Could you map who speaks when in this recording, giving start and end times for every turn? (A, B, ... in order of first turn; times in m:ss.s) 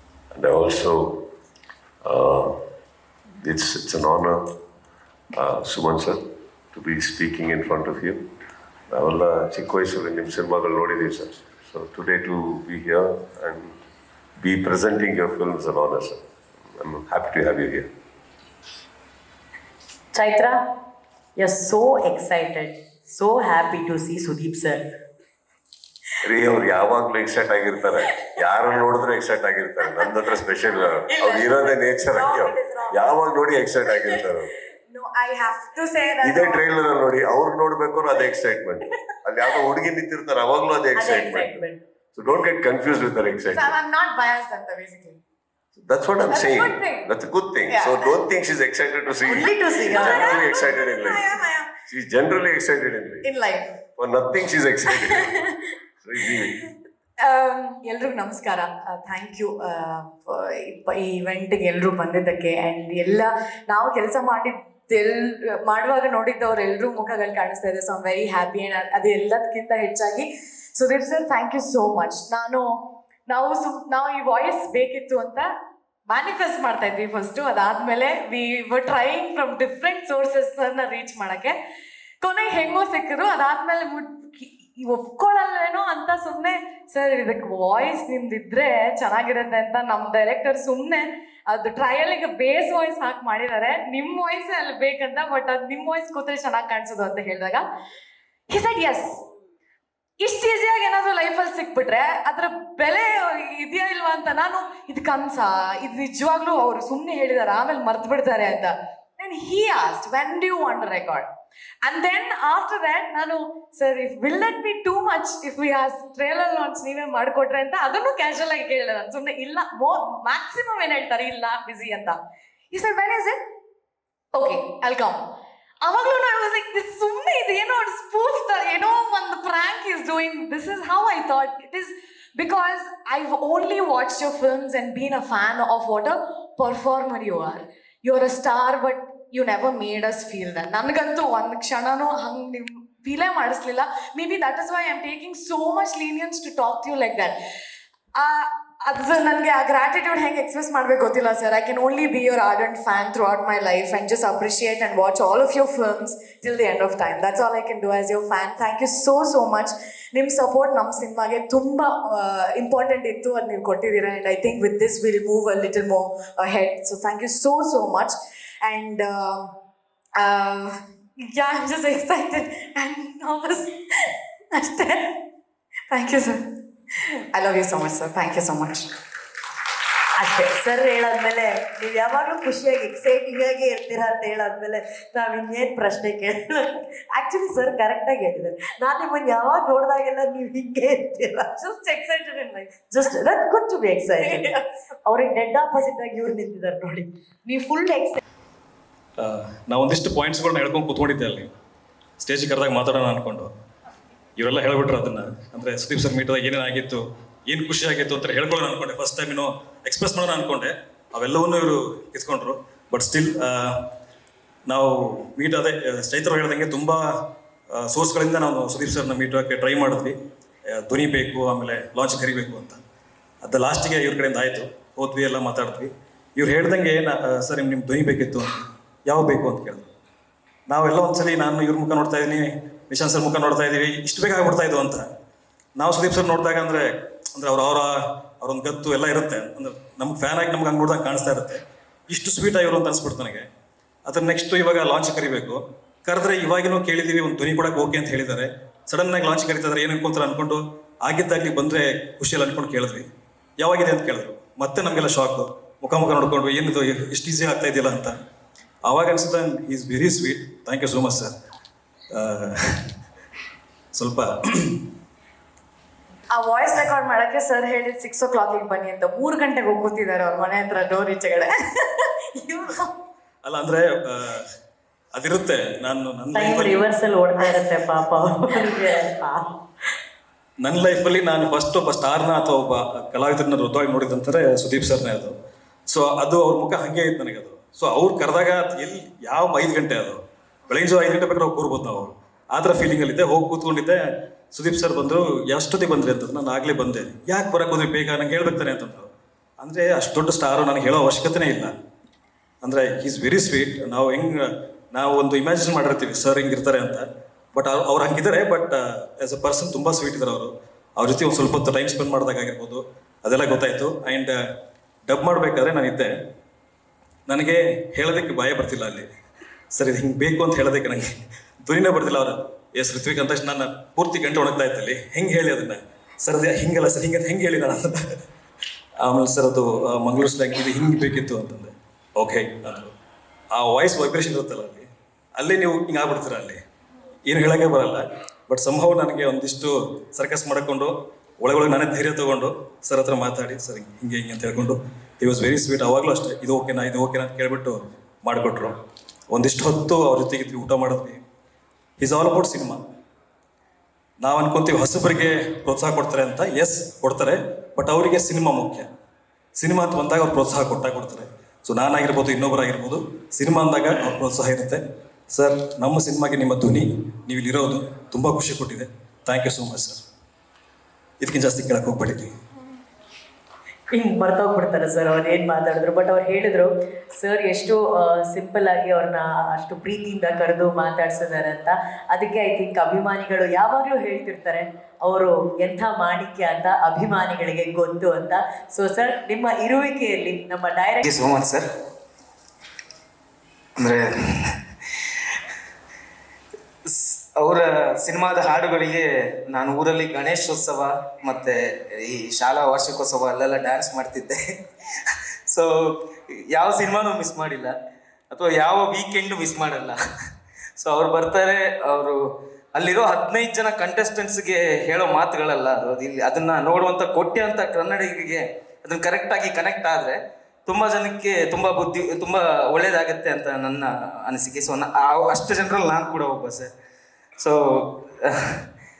0:00.3-0:01.2 A
0:02.0-0:02.6 A
0:03.4-0:04.4 A
0:05.3-0:08.2 A
0:08.9-0:13.8 A
0:14.4-0:16.2 A
0:16.7-0:17.9 A
0:20.1-0:20.6 B
0:21.4-0:24.8 B
0:26.2-0:34.5 A
0:30.7-0:33.2 C
0:34.9-0:36.6 C
0:36.2-0:41.5 A
0:41.0-0:41.8 B
0:42.1-0:43.7 A
0:43.5-0:45.2 C
0:45.8-0:51.4 A
0:46.3-0:47.0 C
0:47.7-0:48.1 C
0:49.3-0:50.4 B
0:49.9-0:51.7 C
0:51.9-0:53.3 A
0:53.2-0:53.7 C
0:54.0-0:55.4 A
0:55.0-0:55.4 C
0:56.0-0:56.6 A
0:57.2-1:12.7 C
1:13.3-1:15.5 C
1:16.1-1:21.5 C
1:22.2-1:37.6 C
1:38.5-1:39.2 C
1:40.2-1:51.3 C
1:51.8-2:02.2 C
2:02.7-2:03.4 C
2:04.3-2:05.2 C
2:05.8-2:27.3 C
2:28.1-2:49.5 C
2:50.2-2:50.7 C
2:51.3-2:53.8 C
2:54.5-2:55.1 C
2:55.9-2:56.4 C
2:57.3-2:58.9 C
3:00.2-3:11.8 B
3:11.6-3:12.7 C
3:12.8-3:14.5 B
3:14.2-3:14.6 C
3:15.0-3:18.2 B
3:19.2-3:21.5 D
3:22.2-3:23.5 D
3:24.4-3:33.8 D
3:34.7-3:37.0 D
3:37.7-3:40.1 D
3:40.7-3:42.8 D
3:43.4-3:49.9 D
3:50.7-3:55.0 D
3:55.8-4:03.5 D
4:04.0-4:13.0 D
4:13.6-4:18.1 D
4:18.8-4:21.3 D
4:22.1-4:22.6 D
4:23.9-4:24.8 D
4:26.3-4:32.9 C
4:33.4-4:34.4 D
4:35.1-4:36.8 D
4:36.3-4:39.5 B
4:40.6-4:45.3 D
4:45.9-4:54.0 D
4:54.5-5:01.7 D
5:02.6-5:14.4 D
5:15.1-5:16.1 D
5:17.3-5:19.1 D
5:19.7-5:21.1 D
5:21.6-5:28.0 D
5:29.0-5:32.9 D
5:33.5-5:36.6 D
5:37.2-5:48.8 D
5:49.3-5:51.2 D
5:52.0-5:52.8 D
5:54.2-5:58.9 D
5:59.5-6:04.8 D
6:05.3-6:10.0 D
6:11.2-6:12.3 D
6:13.9-6:31.0 B
6:31.0-6:31.6 E
6:33.8-6:34.5 E
6:35.1-6:35.3 E
6:36.8-6:44.4 E
6:45.0-6:45.7 E
6:46.5-6:47.7 E
6:48.3-6:50.0 E
6:50.8-6:52.2 E
6:52.7-7:06.7 E
7:07.4-7:08.6 E